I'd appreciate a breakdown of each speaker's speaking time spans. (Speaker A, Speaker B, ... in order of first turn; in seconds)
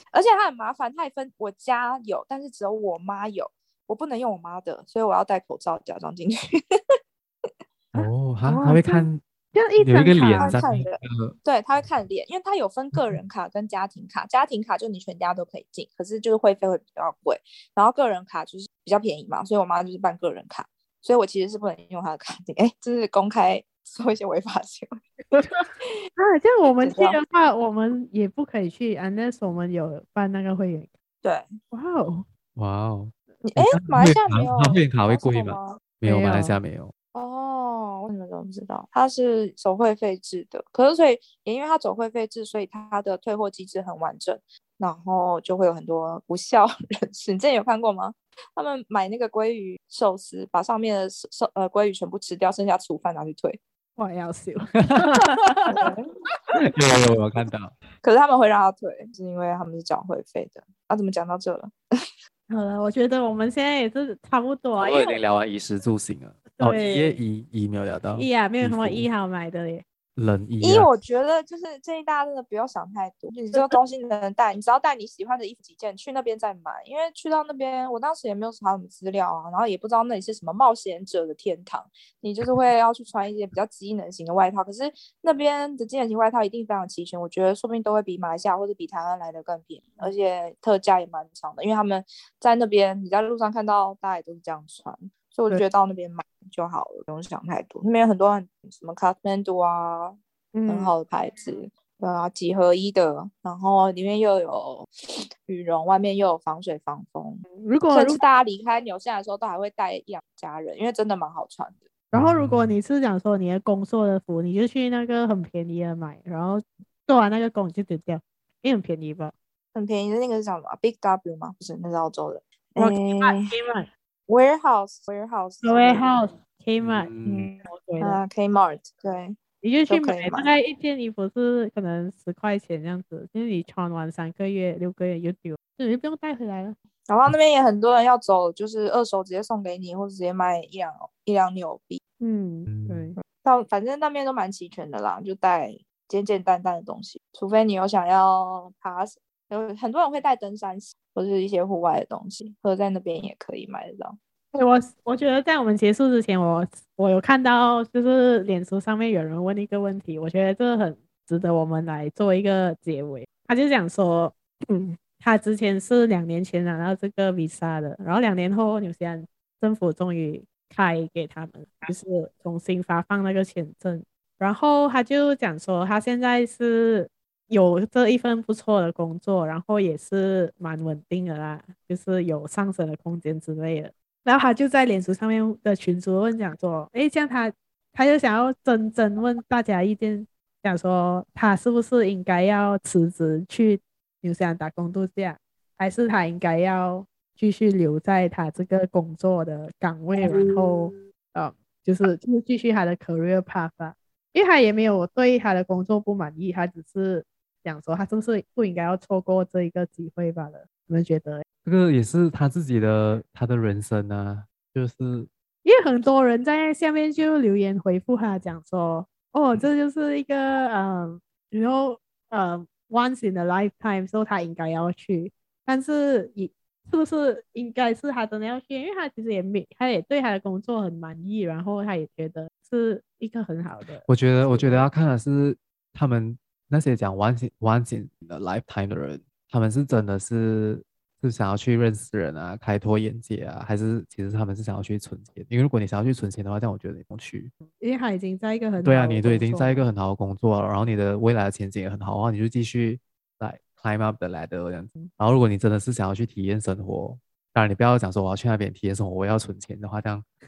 Speaker A: 0.1-6.8, 10.3-25.0, 26.7-27.2, 31.2-31.6, 33.4-35.8, 37.1-53.6, 55.7-56.1, 58.0-61.7, 70.6-111.9, 119.7-123.5, 124.3-126.1, 127.2-130.5, 137.1-142.0, 143.3-154.2
Speaker B: 7.9-9.2, 9.8-11.3, 32.5-36.9, 54.8-55.7, 56.6-57.7, 64.8-69.1, 70.2-70.9, 112.1-112.8, 126.8-127.5, 142.7-143.1, 211.6-215.3, 234.1-247.5, 248.8-260.2
Speaker C: 7.9-10.6, 25.3-30.9, 31.7-32.2, 36.0-36.6, 54.0-55.9, 62.5-65.2, 66.5-67.2, 68.1-69.8, 100.5-100.9, 107.5-108.2, 112.1-119.3, 122.8-123.9, 125.6-127.1, 127.6-128.2, 129.6-136.8, 142.2-143.2, 154.5-211.4, 215.6-234.9, 247.7-249.8